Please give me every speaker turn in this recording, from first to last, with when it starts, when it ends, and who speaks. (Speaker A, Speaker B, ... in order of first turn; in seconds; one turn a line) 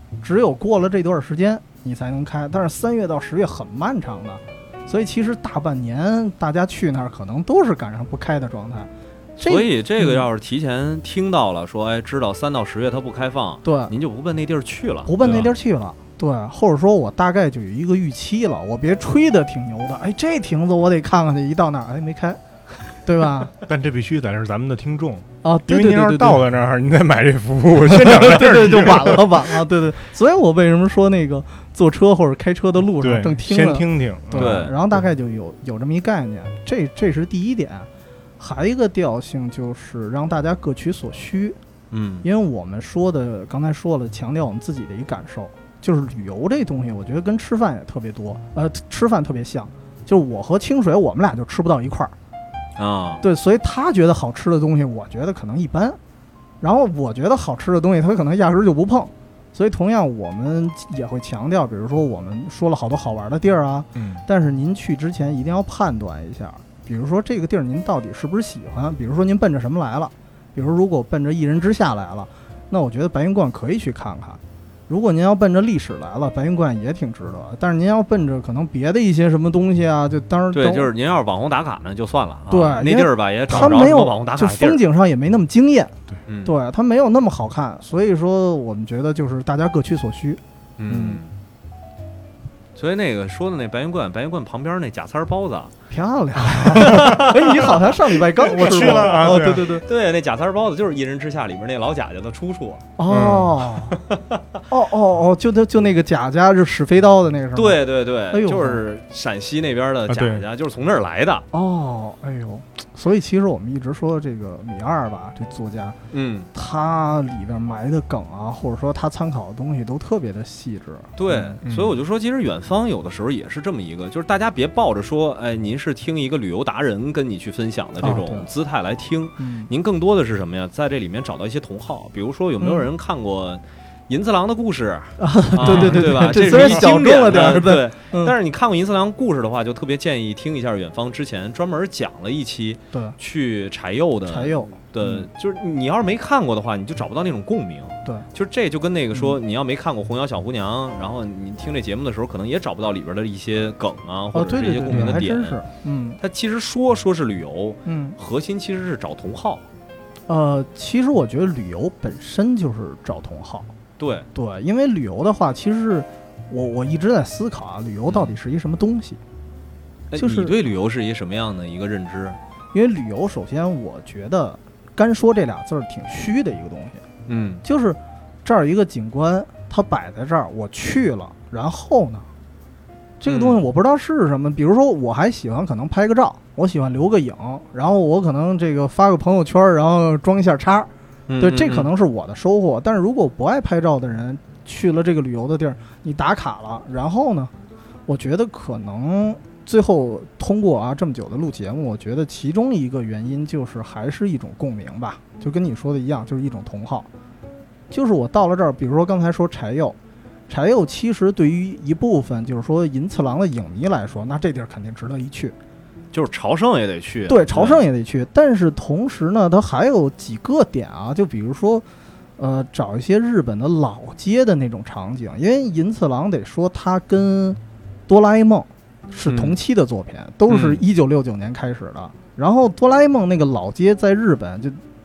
Speaker A: 0.2-10.3
Speaker B: 9.4-15.5
Speaker A: 13.6-13.9
Speaker A: 15.1-22.4
Speaker C: 15.2-15.5
Speaker A: 23.0-23.5
Speaker C: 23.6-29.6
Speaker A: 25.4-26.4
Speaker A: 27.8-37.9
Speaker C: 33.0-34.8
Speaker B: 34.3-34.7
Speaker A: 38.4-41.6
Speaker B: 41.9-42.2
Speaker A: 42.2-52.1
Speaker B: 52.8-53.2
Speaker A: 53.2-56.0
Speaker A: 56.6-80.9
Speaker C: 64.0-64.2
Speaker B: 80.5-84.8
Speaker A: 82.5-85.9
Speaker B: 86.3-86.5
Speaker A: 86.5-91.2
Speaker B: 90.8-91.4
Speaker B: 92.8-95.7
Speaker A: 95.9-99.8
Speaker B: 96.7-97.9
Speaker C: 98.4-99.8
Speaker B: 98.6-102.9
Speaker A: 103.0-104.0
Speaker C: 103.1-103.6
Speaker B: 103.9-104.4
Speaker A: 104.7-108.8
Speaker B: 107.5-111.5
Speaker C: 110.1-110.5
Speaker A: 111.5-116.0
Speaker B: 116.1-116.5
Speaker A: 116.5-121.6
Speaker B: 121.2-155.6
Speaker C: 121.7-121.9
Speaker A: 128.0-128.5
Speaker A: 129.4-129.7
Speaker A: 132.6-132.9
Speaker A: 135.2-138.3
Speaker C: 135.6-136.8
Speaker A: 142.9-143.2
Speaker A: 144.3-145.2
Speaker A: 154.3-156.2
Speaker B: 156.2-159.7
Speaker A: 157.8-158.2
Speaker A: 160.3-163.7
Speaker B: 164.0-164.3
Speaker A: 164.3-169.2
Speaker B: 168.1-168.3
Speaker B: 170.1-172.4
Speaker A: 170.2-170.5
Speaker A: 172.7-177.0
Speaker B: 177.3-177.6
Speaker A: 177.6-182.3
Speaker A: 183.2-197.5
Speaker B: 183.3-183.6
Speaker B: 191.3-191.9
Speaker A: 198.1-207.1
Speaker A: 207.9-210.0
Speaker A: 210.5-215.6
Speaker B: 216.1-217.8
Speaker A: 217.3-221.8
Speaker A: 222.4-234.8
Speaker B: 229.3-229.6
Speaker B: 230.5-230.8